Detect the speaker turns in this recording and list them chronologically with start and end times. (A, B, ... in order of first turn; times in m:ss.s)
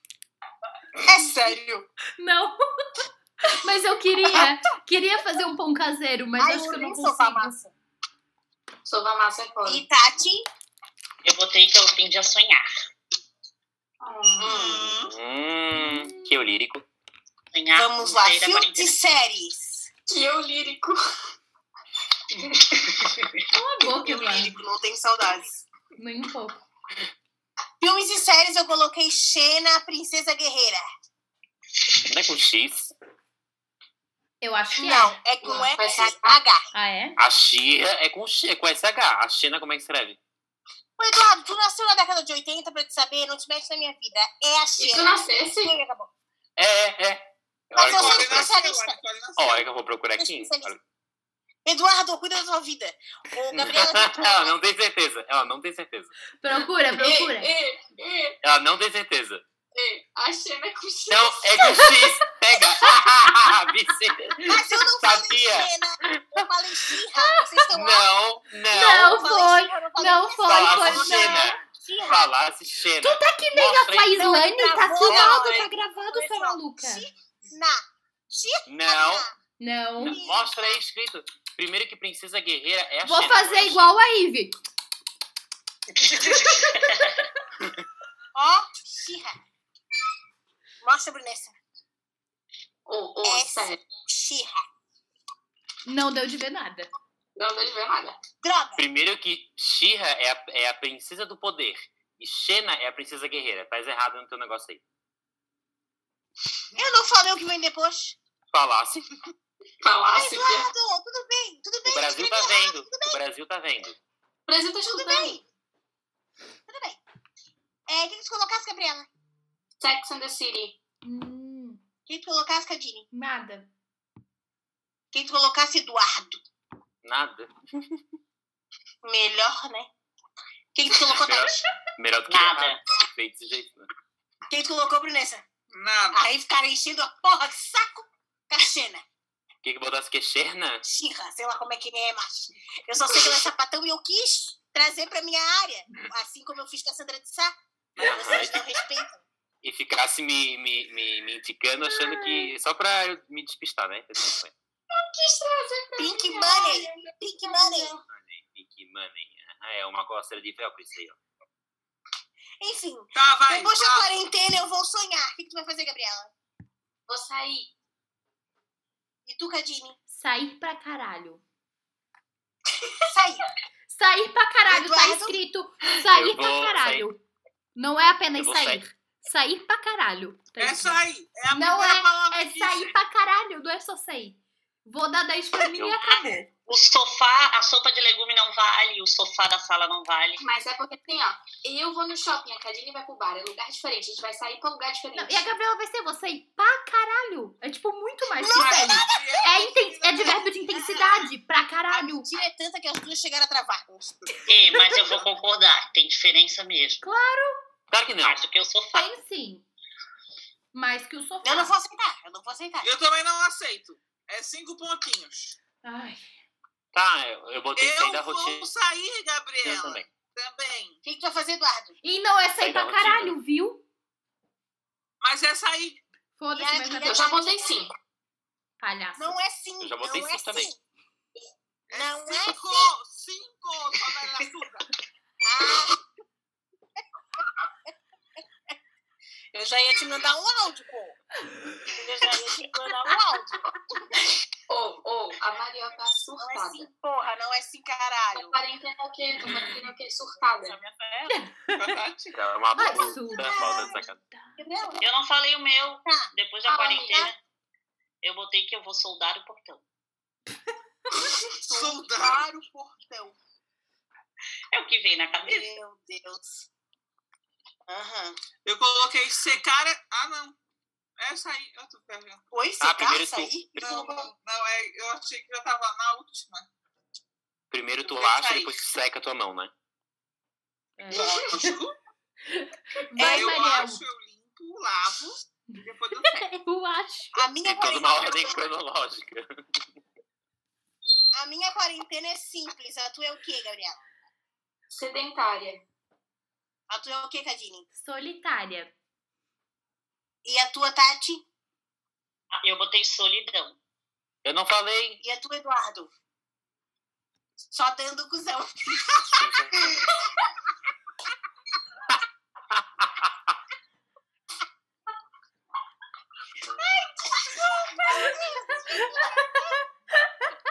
0:01.0-0:01.8 A
0:02.2-0:02.6 B
0:03.4-0:07.5 B
0:06.4-0:07.7 A
0:08.8-0:09.8 C
0:09.6-0:10.4 A
0:11.2-0:12.7 D
0:14.0-0:14.8 C
0:14.4-0:14.9 A
0:14.4-0:15.1 E
0:15.0-0:16.8 F
0:15.7-0:16.3 B
0:17.5-0:18.9 D
0:17.7-0:19.9 A
0:20.1-0:21.0 C
0:23.5-0:24.5 B
0:23.8-0:25.6 A
0:26.0-0:26.6 B
0:27.8-0:30.8 A
0:32.1-0:32.9 F
0:34.4-0:35.2 B
0:34.7-0:36.6 A
0:35.4-0:36.4 C
0:36.7-0:37.2 B
0:37.2-0:40.2 F
0:41.0-0:46.1 A
0:44.8-0:45.8 C
0:46.6-0:48.5 F
0:47.8-0:49.0 A
0:47.8-0:49.6 E
0:49.4-0:50.8 F
0:50.2-0:50.7 A
0:51.6-0:54.6 A
0:53.5-0:56.1 F
0:56.4-0:57.5 B
0:56.9-0:58.4 C
0:58.4-0:59.4 F
0:59.7-1:01.9 C
1:01.1-1:06.4 F
1:04.4-1:08.1 A
1:07.2-1:07.6 B
1:07.7-1:09.2 F
1:08.7-1:11.6 B
1:08.8-1:12.3 A
1:10.5-1:14.2 F
1:13.0-1:17.1 B
1:14.2-1:19.3 A
1:15.1-1:15.4 F
1:18.7-1:19.2 F
1:19.6-1:20.2 B
1:20.0-1:23.9 F
1:20.0-1:20.8 A
1:23.0-1:24.6 B
1:26.0-1:27.1 D
1:28.3-1:29.4 A
1:30.8-1:31.5 A
1:32.8-1:33.8 C
1:33.2-1:34.6 A
1:35.8-1:36.9 B
1:37.4-1:38.2 C
1:38.4-1:38.8 A
1:38.8-1:44.8 F
1:46.7-1:48.2 A
1:48.5-1:49.1 F
1:49.8-1:50.7 C
1:50.1-1:53.2 A
1:51.8-1:54.0 F
1:54.5-1:55.4 C
1:54.9-1:55.4 A
1:56.7-1:57.0 A
1:57.9-1:59.1 A
1:59.8-2:00.8 C
2:01.0-2:01.8 B
2:02.1-2:03.1 A
2:03.1-2:03.7 B
2:05.1-2:06.4 A
2:07.0-2:07.5 F
2:09.0-2:09.9 A
2:10.7-2:11.5 A
2:11.1-2:13.9 F
2:12.3-2:12.8 D
2:14.5-2:15.4 A
2:15.7-2:16.2 E
2:16.1-2:19.0 A
2:19.6-2:20.8 F
2:20.8-2:29.2 A
2:28.0-2:28.6 F
2:29.6-2:34.5 F
2:34.9-2:38.0 C
2:36.0-2:38.0 A
2:38.1-2:41.2 F
2:42.6-2:46.3 A
2:43.1-2:44.1 E
2:47.1-2:47.7 C
2:49.2-2:50.0 A
2:50.1-2:51.4 B
2:53.1-2:53.4 A
2:53.9-2:57.2 B
2:54.7-2:55.4 A
2:55.8-2:57.0 F
2:57.8-3:06.5 B
2:58.4-2:58.8 F
3:00.6-3:02.9 E
3:06.0-3:10.4 D
3:10.4-3:15.5 C
3:15.1-3:22.3 B
3:18.4-3:19.5 A
3:18.5-3:20.4 E
3:21.9-3:24.3 A
3:24.5-3:27.0 D
3:27.0-3:27.6 B
3:27.9-3:28.4 F
3:28.2-3:29.1 D
3:28.9-3:29.6 B
3:30.7-3:31.7 B
3:31.4-3:32.9 A
3:32.8-3:35.6 E
3:35.8-3:36.3 B
3:36.9-3:38.7 F
3:37.8-3:41.0 E
3:39.6-3:40.1 F
3:41.0-3:41.9 A
3:42.0-3:43.8 B
3:42.6-3:43.4 F
3:45.2-3:46.0 E
3:46.4-3:47.3 B
3:46.5-3:47.7 A
3:47.0-3:47.9 C
3:48.8-3:49.3 B
3:49.2-3:50.8 A
3:49.8-3:50.7 F
3:51.9-3:54.9 E
3:51.9-3:52.9 A
3:55.4-3:56.0 A
3:59.5-4:01.2 A
4:01.9-4:03.6 A
4:04.7-4:06.9 C
4:06.4-4:08.5 A
4:08.3-4:10.8 C
4:11.3-4:12.0 B
4:11.8-4:12.4 E
4:12.3-4:14.2 F
4:12.7-4:14.6 B
4:13.4-4:14.0 A
4:14.6-4:15.0 A
4:15.0-4:17.4 D
4:16.0-4:16.3 A
4:16.6-4:17.3 C
4:18.2-4:19.8 D
4:21.6-4:23.4 A
4:21.6-4:22.5 E
4:24.7-4:25.7 D
4:25.4-4:26.7 A
4:27.9-4:28.4 A
4:28.6-4:30.6 E
4:31.2-4:32.4 E
4:32.5-4:34.3 A
4:32.8-4:34.0 F
4:33.8-4:36.7 E
4:37.7-4:39.7 F
4:38.0-4:38.8 E
4:41.0-4:41.8 B
4:41.1-4:41.9 E
4:42.5-4:44.0 B
4:43.2-4:46.4 E
4:43.2-4:43.6 A
4:46.2-4:47.4 B
4:47.3-4:48.6 A
4:47.6-4:49.5 F
4:51.3-4:54.0 A
4:54.9-4:55.8 C
4:56.9-4:57.8 A
4:57.9-4:58.9 B
5:00.4-5:01.4 A
5:02.5-5:03.8 D
5:04.4-5:05.2 F
5:05.2-5:06.1 A
5:07.7-5:09.4 A
5:09.4-5:10.1 F
5:12.7-5:13.5 F
5:16.8-5:19.7 A